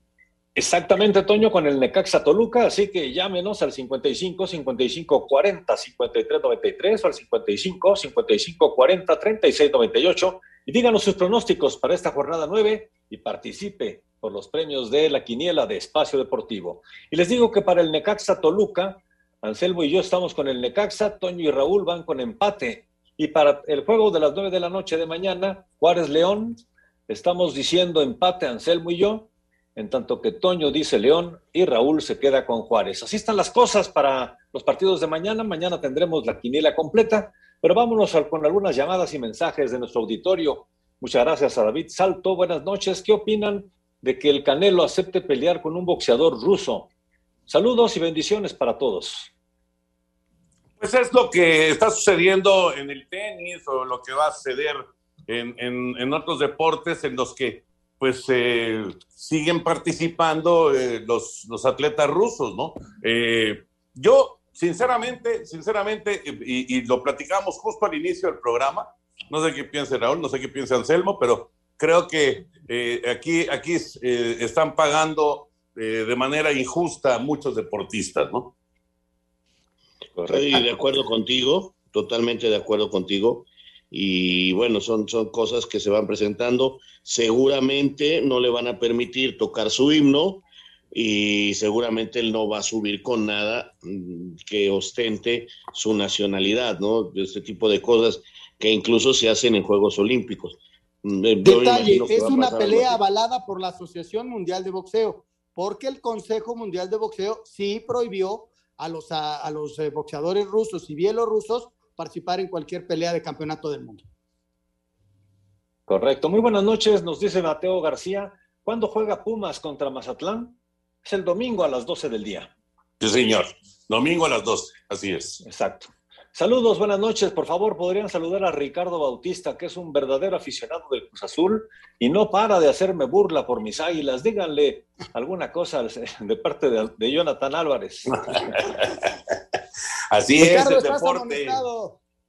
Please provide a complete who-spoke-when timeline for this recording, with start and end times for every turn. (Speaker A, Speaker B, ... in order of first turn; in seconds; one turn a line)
Speaker A: 0.6-46.9
Speaker A: 47.5-49.3
Speaker B: 50.8-78.5
Speaker A: 80.2-80.6
Speaker C: 80.3-90.4
Speaker C: 90.9-103.0
Speaker D: 101.4-114.0
Speaker A: 115.9-120.5
Speaker A: 121.0-122.5
Speaker B: 123.0-125.4
Speaker A: 125.4-138.1
Speaker B: 138.1-139.1
Speaker B: 140.1-141.6
Speaker D: 140.4-142.0